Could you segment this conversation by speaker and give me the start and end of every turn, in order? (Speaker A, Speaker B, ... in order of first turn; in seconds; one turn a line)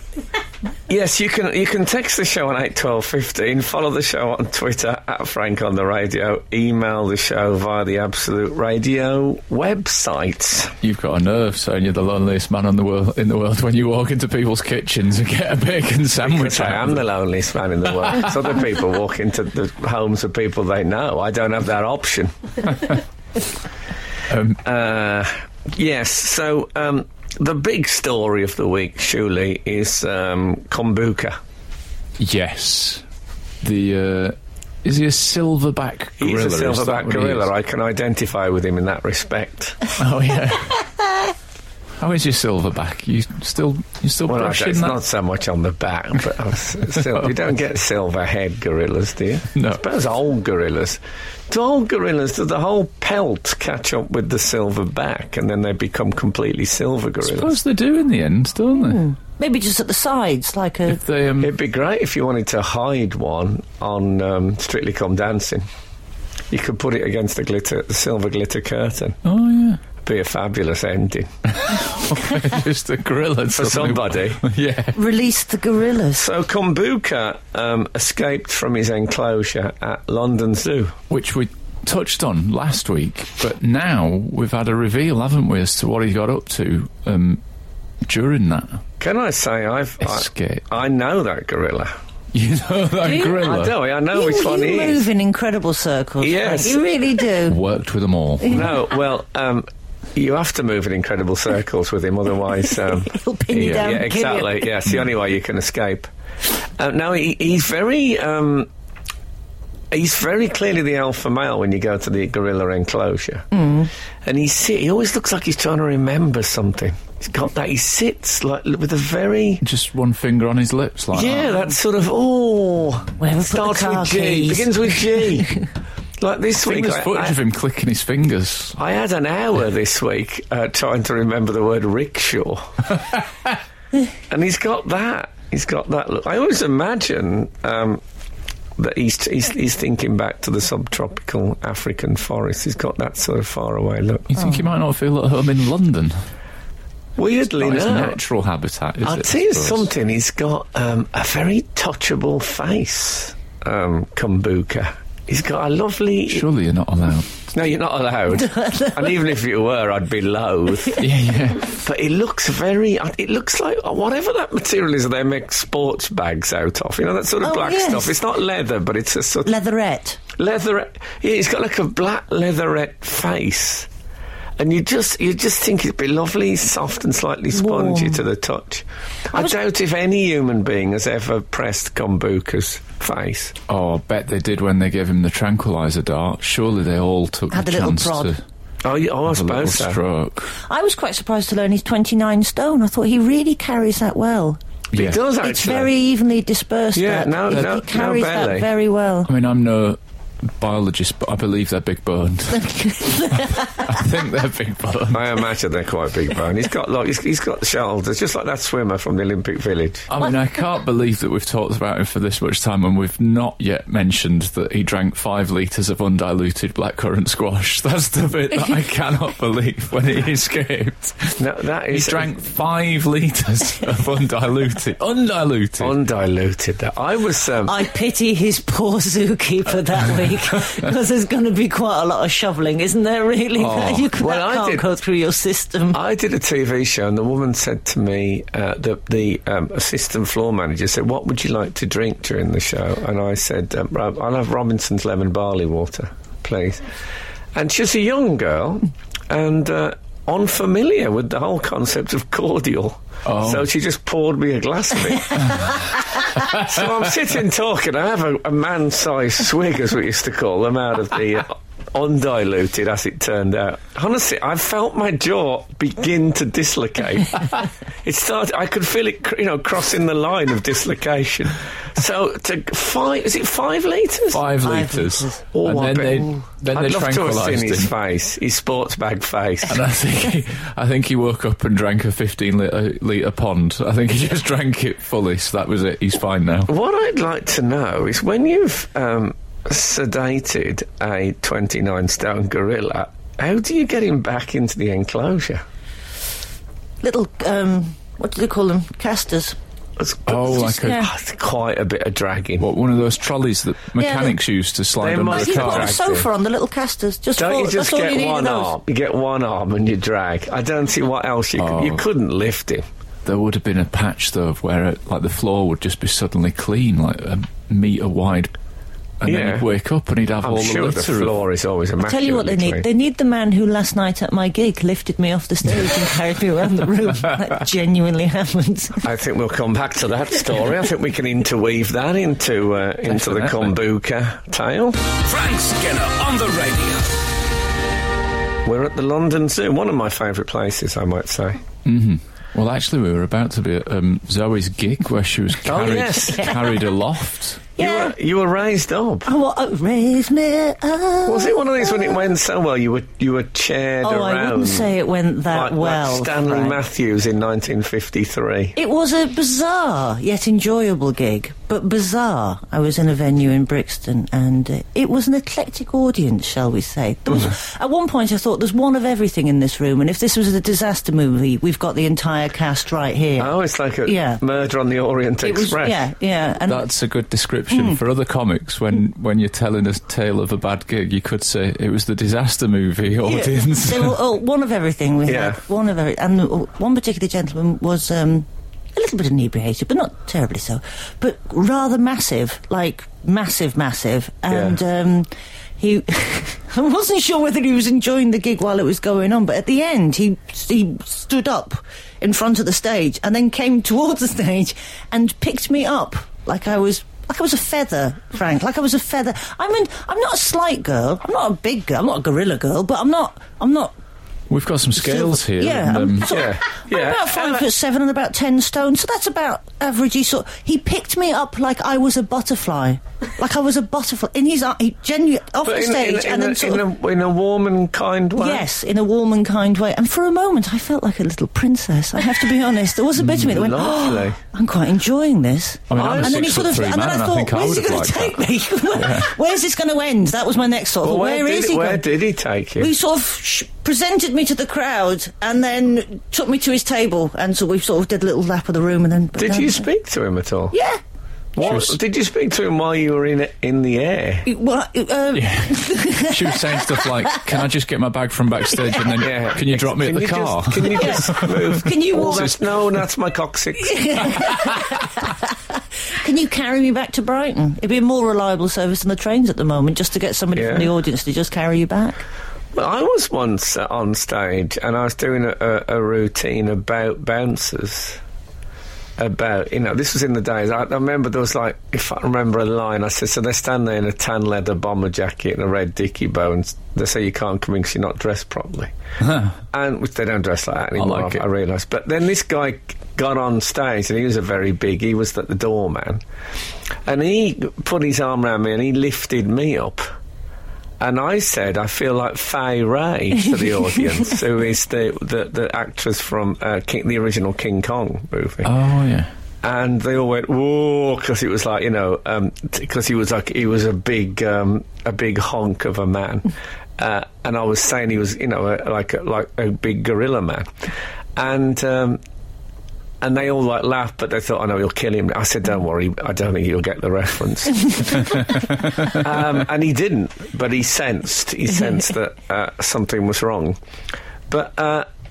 Speaker A: 0.9-10.7
Speaker B: 10.8-17.0
Speaker A: 16.2-22.3
Speaker B: 24.3-24.6
Speaker A: 24.6-31.4
Speaker B: 32.2-33.0
Speaker B: 33.6-37.5
Speaker A: 36.2-39.9
Speaker B: 40.0-40.9
Speaker B: 42.0-45.0
Speaker A: 44.3-57.6
Speaker B: 49.5-49.8
Speaker B: 57.2-59.0
Speaker C: 58.8-61.0
Speaker B: 60.9-61.5
Speaker A: 61.4-65.7
Speaker A: 66.5-69.2
Speaker B: 69.2-69.8
Speaker A: 70.0-71.3
Speaker B: 71.6-75.0
Speaker A: 73.5-74.4
Speaker C: 74.9-76.2
Speaker A: 76.2-81.0
Speaker B: 81.1-87.4
Speaker B: 88.1-88.8
Speaker A: 89.0-91.9
Speaker B: 90.0-90.7
Speaker B: 92.3-93.8
Speaker C: 93.0-93.4
Speaker A: 93.2-95.1
Speaker C: 94.1-97.6
Speaker A: 96.2-96.9
Speaker B: 97.5-98.7
Speaker A: 98.5-106.1
Speaker C: 103.0-104.7
Speaker B: 103.5-104.0
Speaker A: 106.8-108.7
Speaker A: 109.9-113.5
Speaker C: 113.5-113.9
Speaker A: 114.2-119.6
Speaker B: 119.6-121.5
Speaker A: 121.1-125.5
Speaker C: 123.2-125.5
Speaker A: 126.2-127.4
Speaker B: 126.6-128.8
Speaker A: 128.8-132.8
Speaker A: 134.3-138.0
Speaker A: 138.8-144.4
Speaker B: 144.3-146.2
Speaker A: 147.2-148.2
Speaker B: 147.6-149.9
Speaker A: 149.0-156.5
Speaker B: 156.3-157.4
Speaker A: 157.5-161.0
Speaker C: 158.4-159.1
Speaker B: 161.0-161.7
Speaker A: 161.7-169.5
Speaker C: 167.4-168.2
Speaker C: 169.4-170.2
Speaker A: 170.4-173.9
Speaker A: 174.6-183.6
Speaker C: 177.5-178.2
Speaker B: 183.7-188.4
Speaker C: 187.5-188.3
Speaker A: 188.8-190.0
Speaker B: 189.3-190.5
Speaker C: 190.7-194.6
Speaker B: 194.9-195.2
Speaker A: 194.9-195.9
Speaker C: 195.4-199.3
Speaker A: 196.9-198.7
Speaker B: 199.3-200.0
Speaker B: 200.6-205.3
Speaker C: 202.6-204.0
Speaker A: 205.1-210.1
Speaker B: 210.1-221.4
Speaker A: 221.4-222.3
Speaker B: 221.9-225.9
Speaker A: 225.8-227.8
Speaker C: 227.7-236.0
Speaker B: 233.6-234.1
Speaker A: 234.2-234.8
Speaker A: 235.9-246.8
Speaker A: 247.6-274.4
Speaker B: 253.2-253.7
Speaker B: 274.3-277.9
Speaker C: 274.6-275.5
Speaker A: 275.5-279.8
Speaker B: 279.7-286.7
Speaker A: 286.7-295.6
Speaker C: 297.0-299.6
Speaker A: 300.0-302.7
Speaker B: 300.3-301.1
Speaker C: 300.5-301.1
Speaker B: 302.6-305.9
Speaker C: 304.0-304.4
Speaker A: 305.0-306.3
Speaker C: 305.3-308.7
Speaker A: 307.4-312.9
Speaker B: 311.6-312.0
Speaker B: 313.2-318.5
Speaker B: 319.2-321.4
Speaker A: 319.2-319.7
Speaker A: 320.4-322.9
Speaker C: 322.1-329.0
Speaker A: 329.0-335.1
Speaker B: 333.1-333.8
Speaker D: 335.1-337.2
Speaker A: 338.6-341.6
Speaker B: 341.9-347.6
Speaker A: 345.6-346.6
Speaker A: 347.8-349.3
Speaker C: 347.8-348.1
Speaker C: 349.2-352.1
Speaker A: 351.3-354.9
Speaker C: 354.0-356.8
Speaker A: 355.5-358.8
Speaker C: 358.8-374.4
Speaker A: 373.4-376.1
Speaker C: 375.4-376.9
Speaker B: 376.7-384.2
Speaker C: 377.7-378.0
Speaker C: 383.2-413.9
Speaker A: 385.3-385.6
Speaker A: 394.5-394.8
Speaker B: 414.5-416.4
Speaker C: 415.0-426.9
Speaker A: 416.3-417.7
Speaker A: 425.6-428.6
Speaker C: 428.4-442.1
Speaker A: 433.2-434.4
Speaker B: 435.9-439.3
Speaker A: 435.9-436.7
Speaker A: 441.0-442.9
Speaker C: 442.8-449.9
Speaker A: 449.4-450.7
Speaker C: 450.7-451.0
Speaker A: 451.6-454.5
Speaker B: 451.6-452.0
Speaker C: 454.4-457.5
Speaker B: 455.4-462.6
Speaker C: 458.8-459.2
Speaker A: 459.2-464.4
Speaker C: 460.9-462.5
Speaker C: 463.8-465.5
Speaker C: 466.2-472.2
Speaker A: 470.6-470.9
Speaker A: 472.8-478.2
Speaker A: 479.2-488.9
Speaker A: 489.7-496.2
Speaker B: 491.0-491.4
Speaker A: 497.1-500.1
Speaker A: 501.0-508.7
Speaker C: 503.4-504.3
Speaker B: 508.6-509.3
Speaker A: 509.6-522.2
Speaker A: 523.2-533.8
Speaker A: 534.5-535.1